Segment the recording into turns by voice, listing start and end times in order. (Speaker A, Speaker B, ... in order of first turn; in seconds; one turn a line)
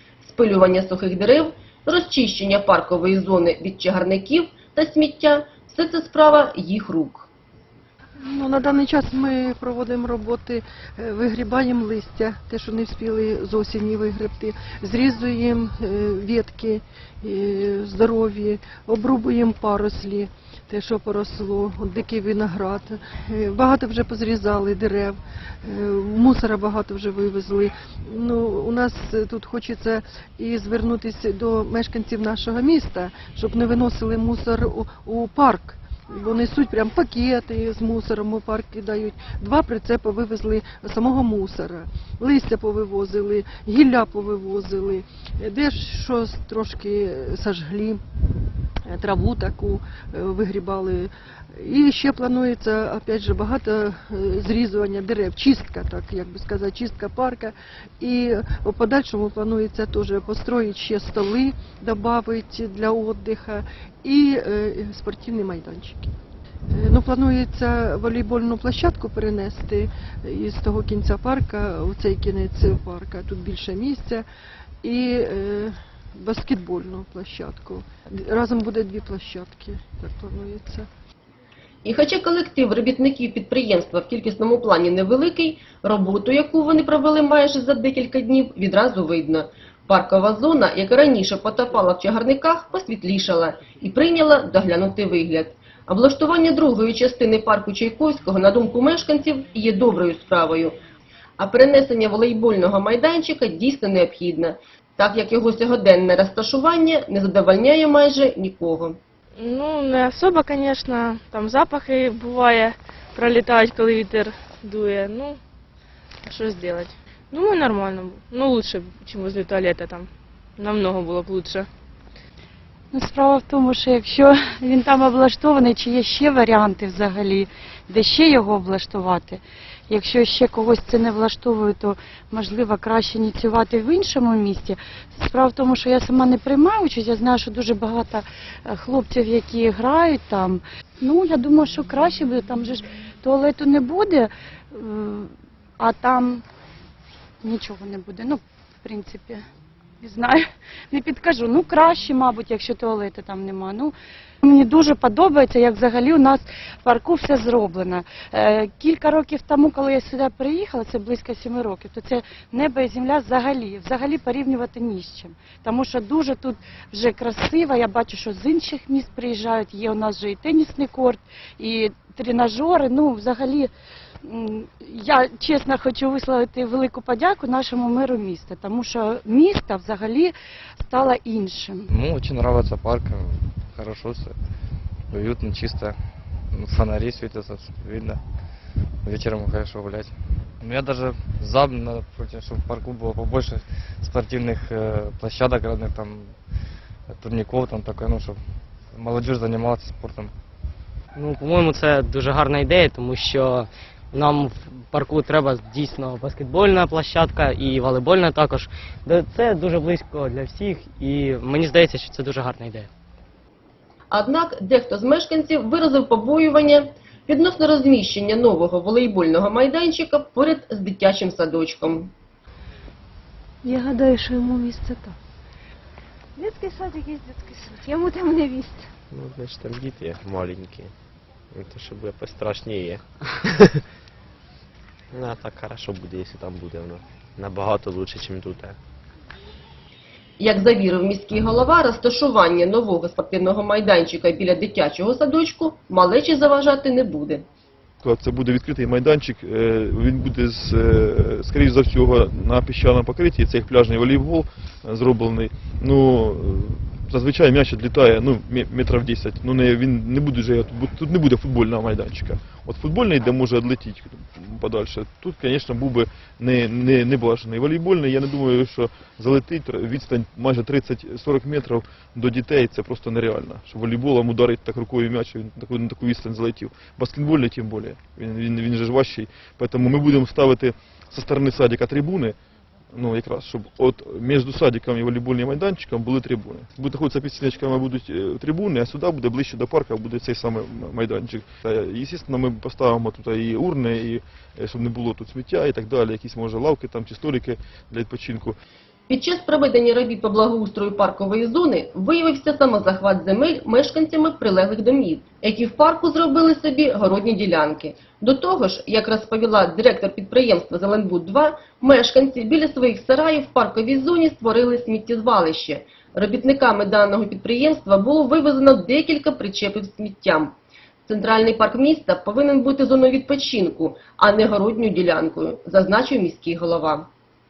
Speaker A: 0.2-7.3
Speaker B: 8.2-48.0
Speaker B: 48.9-66.1
Speaker B: 66.7-74.2
Speaker B: 74.8-80.9
Speaker A: 81.8-100.8
Speaker A: 101.4-109.0
Speaker C: 109.4-115.4
Speaker C: 116.2-121.7
Speaker D: 122.9-146.4
Speaker D: 147.4-149.4
Speaker D: 150.0-173.7
Speaker D: 174.2-181.9
Speaker E: 181.9-184.4
Speaker E: 185.1-186.0
Speaker E: 186.5-188.2
Speaker E: 189.0-196.3
Speaker E: 197.1-198.4
Speaker E: 198.9-200.3
Speaker F: 201.2-212.9
Speaker A: 214.1-222.1
Speaker G: 223.6-225.2
Speaker G: 226.4-228.9
Speaker H: 229.1-230.9
Speaker H: 231.5-233.0
Speaker H: 235.1-238.8
Speaker A: 240.4-247.4
Speaker I: 248.0-282.4
Speaker I: 282.9-298.6
Speaker A: 299.1-320.6
Speaker A: 321.1-327.1